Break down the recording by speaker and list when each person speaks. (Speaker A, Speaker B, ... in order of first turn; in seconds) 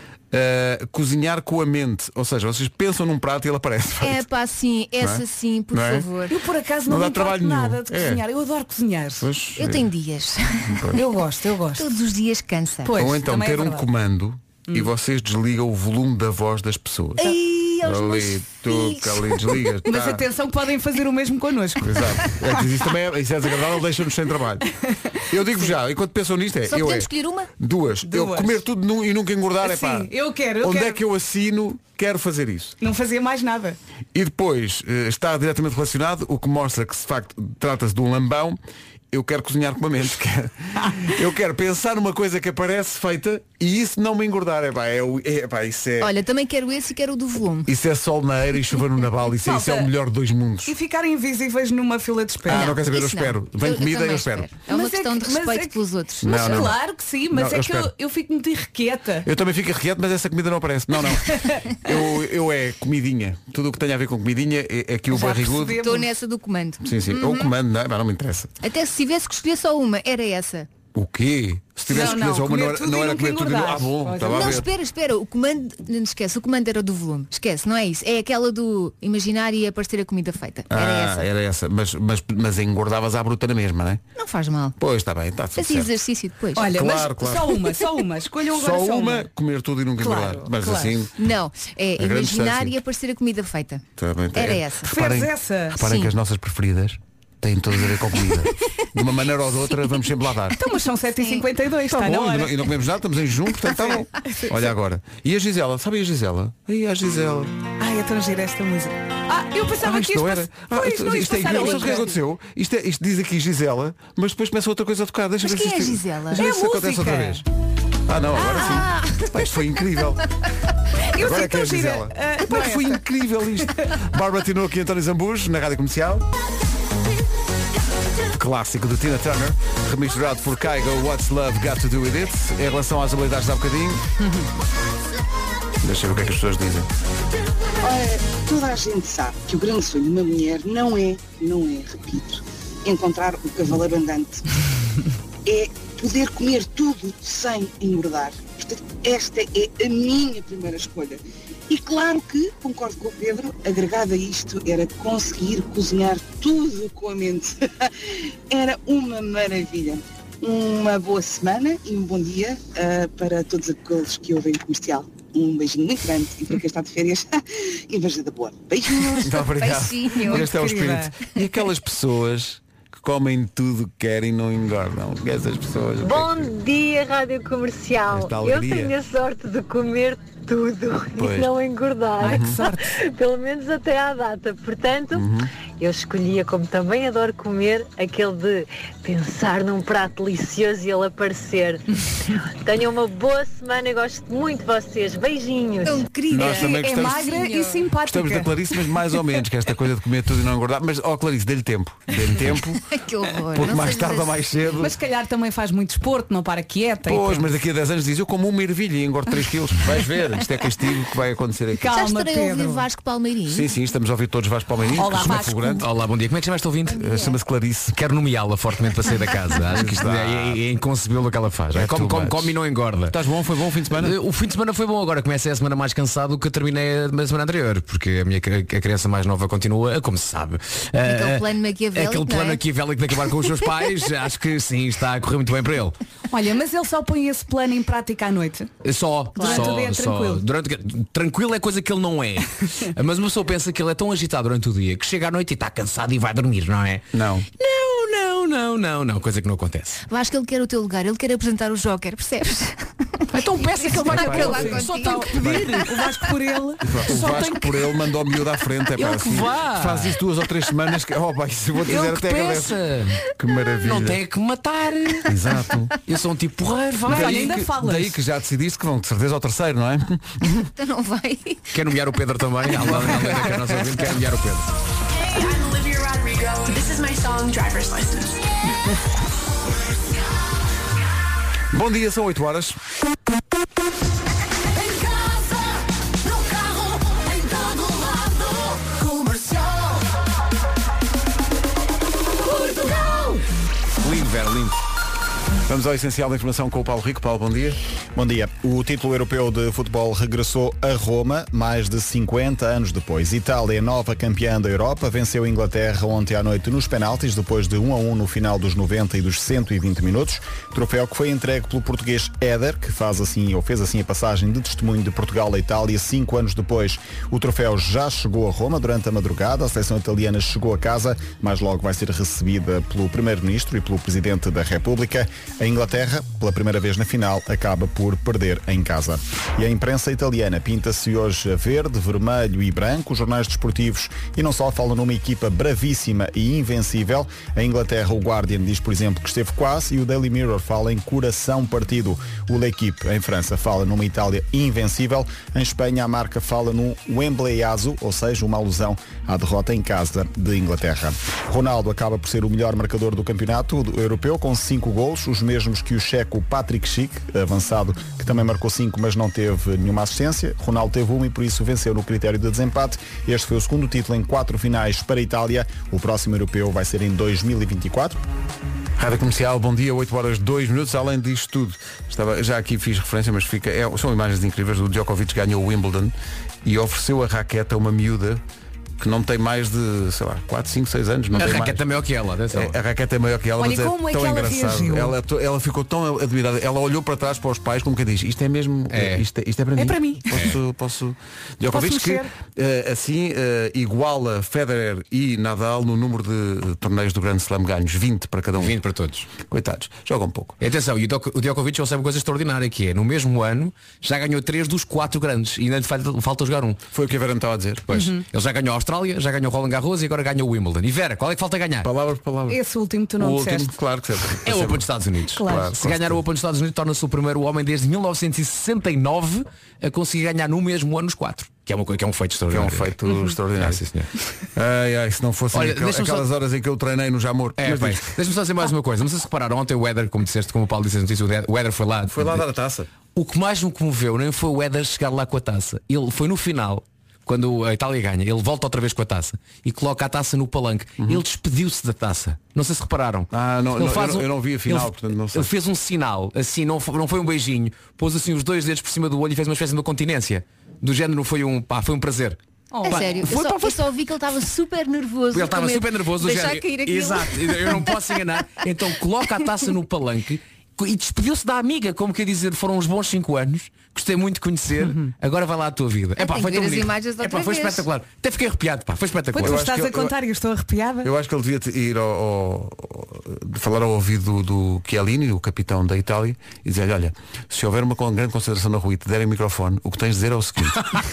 Speaker A: 0.3-4.3, 5.0-6.1, 6.8-8.2, 9.2-9.9, 10.7-11.0, 12.9-20.2, 21.8-24.7, 25.3-30.1, 30.6-32.7, 34.1-38.6, 39.1-46.1, 47.6-50.7, 52.5-54.5, 56.2-56.8, 57.3-57.9, 59.2-65.8, 66.8-68.5, 70.9-74.7, 80.7-84.0, 84.8-85.9, 86.6-87.7, 88.5-91.2, 92.0-92.7, 94.0-100.6, 101.9-107.5, 109.8-117.4, 118.1-120.2, 121.2-126.2, 128.3-134.0, 135.8-136.9, 169.2-176.5, 178.1-178.9, 181.2-181.5, 182.2-182.6, 185.1-185.5, 196.3-197.3, 198.0-202.8, 203.5-204.9, 207.1-211.9, 213.5-215.9, 217.0-217.9, 219.7-220.6, 221.7-222.6, 223.1-224.2, 247.1-247.4, 254.1-255.7, 256.8-264.2, 265.3-265.9, 267.1-270.7, 272.7-274.0, 281.7-282.8, 295.7-297.8, 369.0-378.4, 379.0-381.8, 382.5-398.8, 399.3-400.6, 406.9-407.9, 411.8-412.6, 413.2-414.9, 415.4-416.2, 422.5-423.8, 424.5-428.1, 432.1-432.9, 443.3-445.5, 469.4-470.1, 471.0-480.8
Speaker B: 4.0-6.3, 9.6-10.8, 11.7-12.9, 17.2-19.7, 26.7-27.5, 46.0-47.7, 52.5-56.7, 65.7-67.5, 68.6-70.7, 74.3-81.3, 84.2-84.8, 85.5-86.7, 91.2-94.9, 95.8-96.1, 111.5-112.0, 115.4-116.5, 118.4-119.3, 169.4-170.5, 195.8-197.9, 202.8-204.4, 211.9-213.7, 216.9-217.4, 231.0-232.6, 239.3-239.8, 250.1-255.7, 270.8-271.6, 452.8-458.0, 466.2-467.9
Speaker C: 6.3-9.3, 10.9-11.9, 12.8-13.8, 19.9-22.3, 28.0-28.6, 29.6-31.0, 32.8-33.8, 49.4-49.9, 50.6-52.7, 54.7-59.3, 61.2-61.6, 65.1-66.1, 71.9-74.6, 86.5-89.3, 90.0-90.9, 94.8-95.8, 100.5-102.5, 103.8-104.6, 107.8-112.1, 116.3-117.4, 118.3-118.8, 121.1-123.0, 170.2-171.1, 182.2-182.8, 196.3-198.5, 204.8-207.5, 211.8-212.8, 215.0-215.8, 236.3-238.7, 239.3-240.4, 254.4-254.9, 255.7-256.9, 267.0-268.2, 383.6-385.1, 389.8-390.3, 391.7-392.3, 407.9-408.2, 412.5-413.7, 415.3-415.7, 452.7-453.2, 464.8-465.1, 469.3-471.1
Speaker D: 137.8-144.4, 145.4-157.9, 158.5-169.3
Speaker E: 176.0-185.3, 185.8-191.8, 192.6-196.1
Speaker F: 215.8-217.1, 217.9-223.2, 223.9-236.0, 238.8-247.1, 247.6-250.0, 253.3-255.9, 257.0-257.8, 258.9-260.2, 261.8-263.2, 263.8-265.3, 266.1-267.7, 271.7-274.7, 289.1-289.6, 292.5-293.4, 294.0-294.7, 381.3-382.8, 388.9-389.2, 390.3-390.6, 398.6-399.3, 400.6-406.8, 407.9-411.9, 414.4-422.9, 423.6-424.1, 425.5-426.3, 427.6-432.4, 433.1-453.9, 455.3-469.7
Speaker G: 275.1-278.4
Speaker H: 298.1-368.2